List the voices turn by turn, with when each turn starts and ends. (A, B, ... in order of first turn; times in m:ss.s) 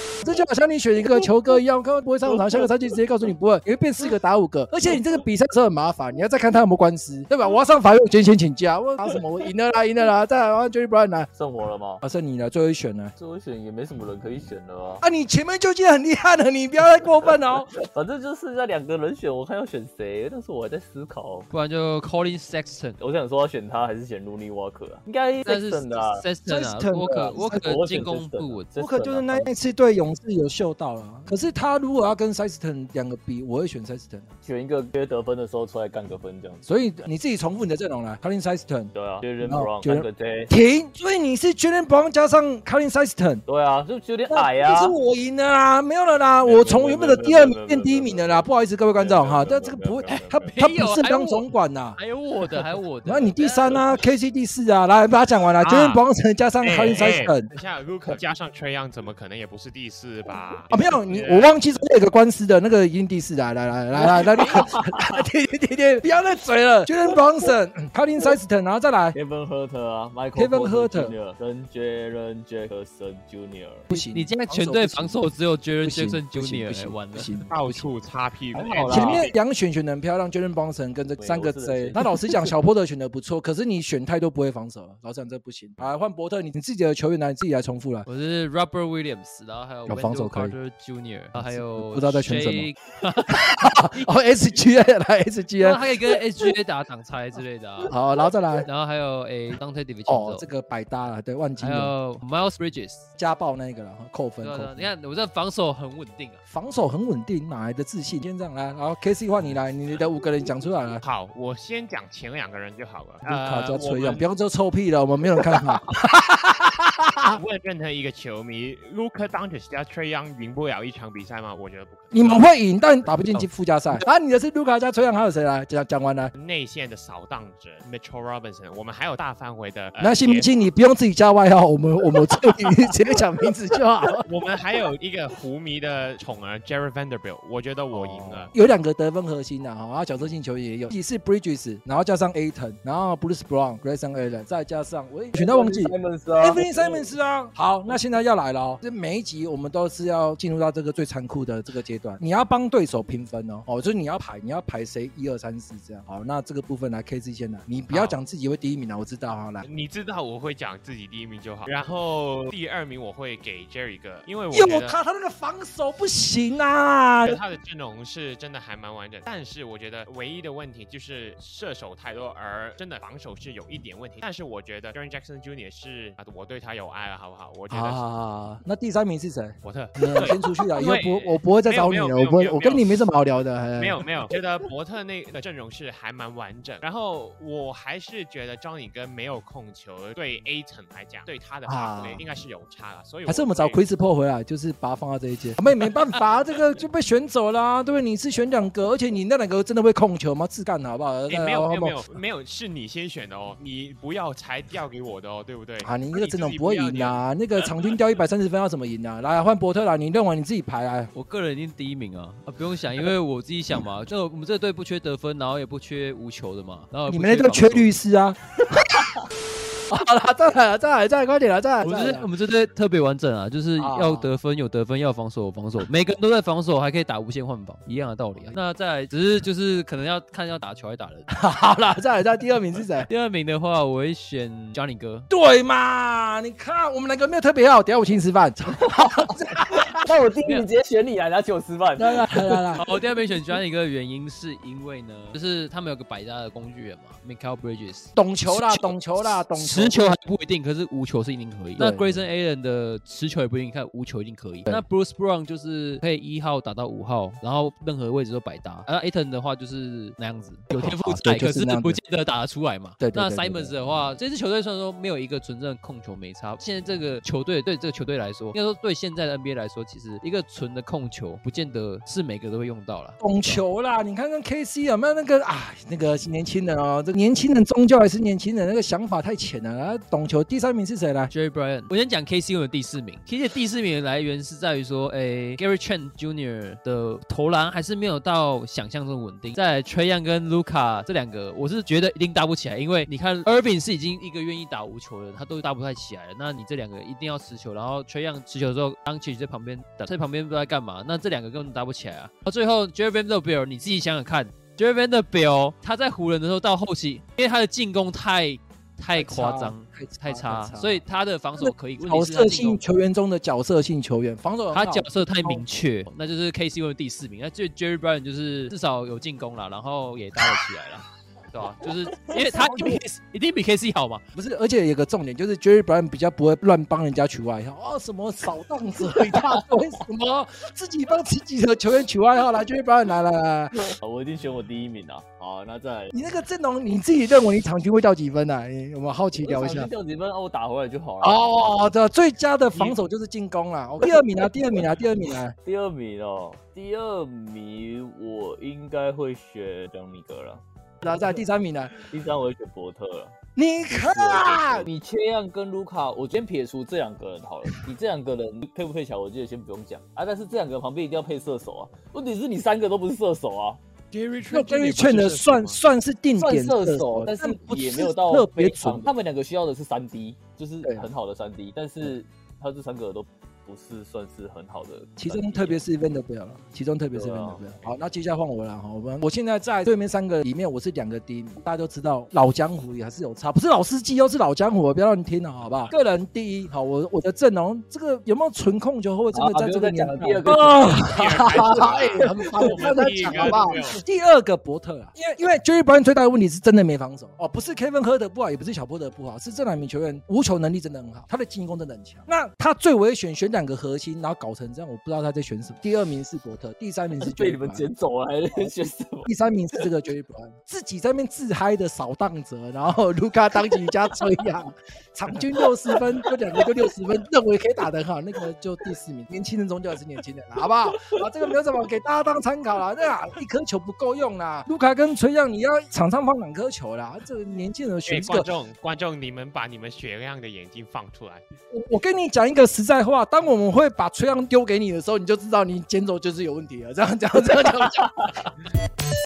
0:00.2-0:11.3 A
0:02.3-0:02.6 B
0:11.3-0:12.0 B
0:12.0-0:13.1 A
0:13.2-0:15.0 B
0:15.0-0:17.8 A
0:17.8-0:21.5 B
0:21.5-0:23.0 C
0:23.0-0:26.3 B
0:25.4-0:28.7 C
0:26.4-0:27.7 A
0:27.0-0:29.5 B
0:28.8-0:34.3 A
0:34.4-0:37.1 B
0:36.6-0:43.4 A
0:38.9-0:40.5 B
0:43.5-0:45.0 B
0:44.3-0:52.0 A
0:46.4-0:50.5 B
0:50.1-0:51.5 C
0:52.0-0:53.8 C
0:53.0-0:57.5 A
0:55.6-0:56.0 D
0:56.6-1:01.6 D
1:00.7-1:09.2 A
1:04.0-1:05.2 B
1:09.1-1:13.9 B
1:10.4-1:11.1 A
1:13.9-1:15.2 A
1:13.9-1:17.9 C
1:15.8-1:17.6 A
1:17.5-1:19.4 D
1:18.5-1:19.3 B
1:18.8-1:28.1 A
1:21.2-1:22.1 B
1:28.1-1:34.1 C
1:29.9-1:30.6 A
1:31.4-1:32.7 A
1:33.3-1:35.8 A
1:35.6-1:38.0 C
1:37.9-1:38.7 A
1:38.7-1:40.5 C
1:40.1-1:41.9 A
1:41.6-1:43.1 C
1:43.2-1:44.9 A
1:44.4-1:46.4 C
1:46.5-1:51.0 A
1:51.0-1:54.3 D
1:53.2-1:57.4 A
1:57.3-2:02.5 D
2:02.1-2:06.3 A
2:03.0-2:03.5 D
2:06.4-2:10.6 D
2:10.0-2:14.2 A
2:14.2-2:18.5 D
2:17.9-2:18.5 B
2:18.5-2:39.6 A
2:25.3-2:27.1 B
2:37.9-2:38.2 D
2:39.6-2:45.0 D
2:44.5-2:47.4 A
2:47.2-2:58.1 D
2:57.7-3:04.0 A
2:59.6-3:03.1 D
3:03.8-3:13.9 D
3:11.6-3:12.2 A
3:13.2-3:22.0 A
3:21.3-3:27.7 D
3:25.8-3:31.1 A
3:31.1-3:38.0 C
3:37.1-3:39.1 A
3:39.9-3:42.3 A
3:41.8-3:51.3 C
3:43.8-3:44.3 A
3:51.3-3:53.1 A
3:53.0-3:55.3 C
3:55.3-4:00.2 A
3:59.0-3:59.4 B
4:00.0-4:02.8 B
4:02.0-4:02.9 A
4:02.8-4:33.6 C
4:08.2-4:10.2 A
4:11.8-4:12.2 A
4:20.7-4:22.0 A
4:23.0-4:23.8 A
4:33.2-4:41.3 A
4:41.3-5:13.0 C
5:09.1-5:11.0 A
5:11.6-5:15.7 A
5:14.7-5:24.2 C
5:22.5-5:23.0 A
5:24.4-5:33.9 A
5:33.8-5:36.2 B
5:36.1-5:39.9 A
5:39.4-5:41.8 B
5:41.2-5:45.6 A
5:42.8-5:43.0 B
5:44.0-5:44.5 B
5:45.6-5:51.4 B
5:51.0-5:52.0 A
5:52.0-5:53.4 B
5:53.6-5:54.9 A
5:53.9-6:03.8 B
6:04.1-6:05.8 D
6:04.5-6:09.1 A
6:06.4-6:15.8 B
6:15.2-6:47.9 A
6:17.1-6:17.6 B
6:29.3-6:33.7 B
6:30.8-6:34.0 D
6:47.2-6:49.3 B
6:48.5-7:08.5 A
6:53.6-6:54.0 B
6:55.6-6:56.7 B
7:08.1-7:11.4 D
7:11.7-7:18.3 A